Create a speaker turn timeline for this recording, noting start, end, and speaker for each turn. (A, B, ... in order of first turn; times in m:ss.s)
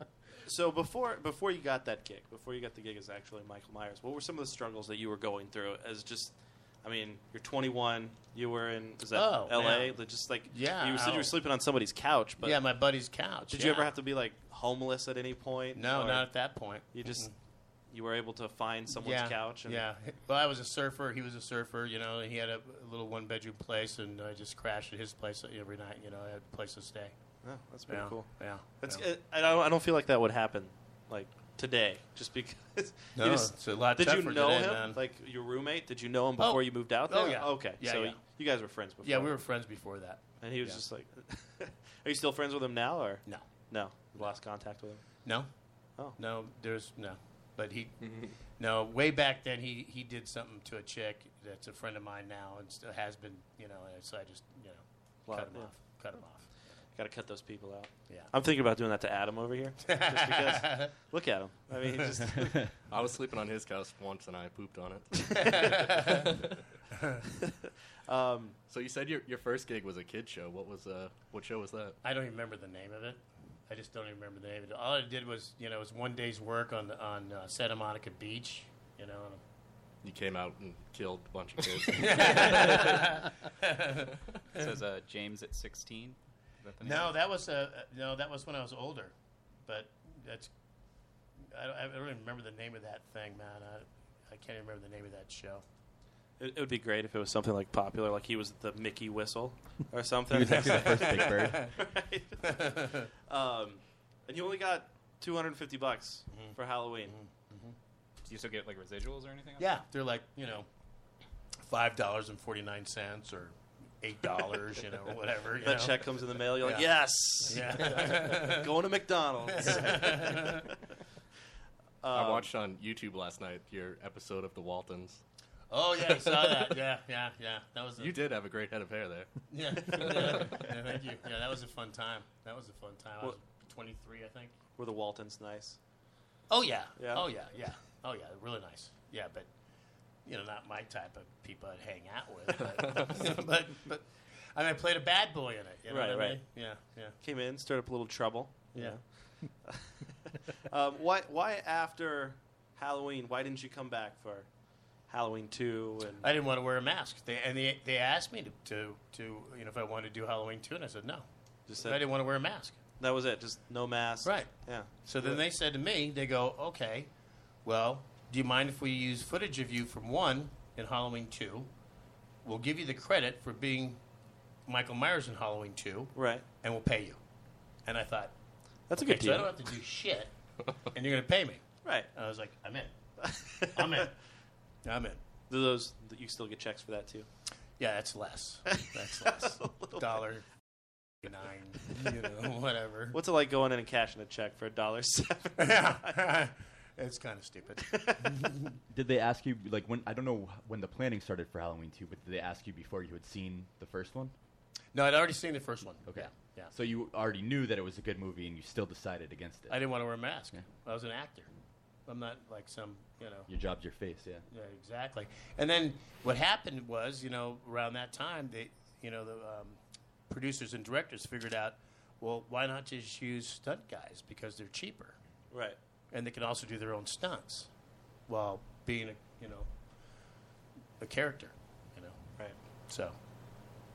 0:00.4-0:12.6 A
0:09.1-0:11.3 B
0:12.4-0:13.9 B
0:13.5-0:16.3 A
0:15.8-0:17.3 B
0:16.9-0:17.3 A
0:17.9-0:19.8 A
0:19.0-0:27.1 B
0:27.4-0:39.4 A
0:27.9-0:29.1 B
0:33.1-0:35.0 B
0:36.4-0:38.2 B
0:39.0-0:40.8 B
0:40.4-0:45.2 A
0:45.2-0:45.5 B
0:46.1-0:56.5 B
0:55.3-0:56.0 A
0:57.0-1:02.6 A
0:59.9-1:00.9 B
1:01.9-1:02.3 B
1:02.9-1:06.7 C
1:05.4-1:06.2 B
1:07.7-1:08.6 A
1:08.7-1:12.0 C
1:12.0-1:19.4 B
1:20.0-1:23.1 C
1:21.9-1:24.7 B
1:24.5-1:27.1 D
1:26.8-1:29.1 B
1:29.7-1:30.5 B
1:31.5-1:35.6 B
1:36.4-1:47.1 A
1:40.3-1:41.8 E
1:40.5-1:41.7 B
1:42.4-1:43.1 B
1:46.3-1:47.8 B
1:48.2-1:49.8 D
1:49.6-1:50.7 B
1:51.6-1:56.9 B
1:55.6-2:00.8 A
1:57.4-1:58.7 B
1:59.5-2:00.7 B
2:02.0-2:02.5 A
2:02.1-2:05.2 C
2:05.7-2:08.1 B
2:08.0-2:10.6 C
2:09.5-2:14.5 B
2:14.8-2:15.8 A
2:16.5-2:19.5 B
2:17.0-2:17.2 A
2:20.2-2:27.2 B
2:25.9-2:26.4 A
2:27.2-2:30.1 A
2:30.7-2:34.5 A
2:35.1-2:36.2 A
2:36.2-2:41.2 B
2:41.7-2:42.0 A
2:41.8-2:42.8 B
2:43.0-2:45.4 A
2:44.2-2:47.1 B
2:47.6-2:51.7 B
2:52.4-2:54.0 B
2:54.7-2:57.2 B
2:56.2-2:56.4 A
2:57.8-2:58.3 B
2:58.9-2:59.5 A
2:59.0-3:00.3 B
3:00.8-3:02.9 B
3:01.8-3:02.1 A
3:03.2-3:04.0 A
3:03.6-3:04.1 B
3:04.8-3:05.2 B
3:05.5-3:07.3 A
3:07.8-3:10.5 B
3:08.7-3:10.0 A
3:11.2-3:13.2 B
3:13.1-3:16.2 A
3:15.6-3:18.7 B
3:17.8-3:18.5 A
3:18.9-3:24.3 E
3:24.9-3:26.7 B
3:26.1-3:29.8 E
3:29.7-3:31.5 B
3:32.1-3:33.5 B
3:33.5-3:34.4 E
3:34.5-3:45.2 B
3:45.5-3:45.8 A
3:46.1-3:47.7 B
3:48.3-3:49.7 B
3:51.0-3:53.2 B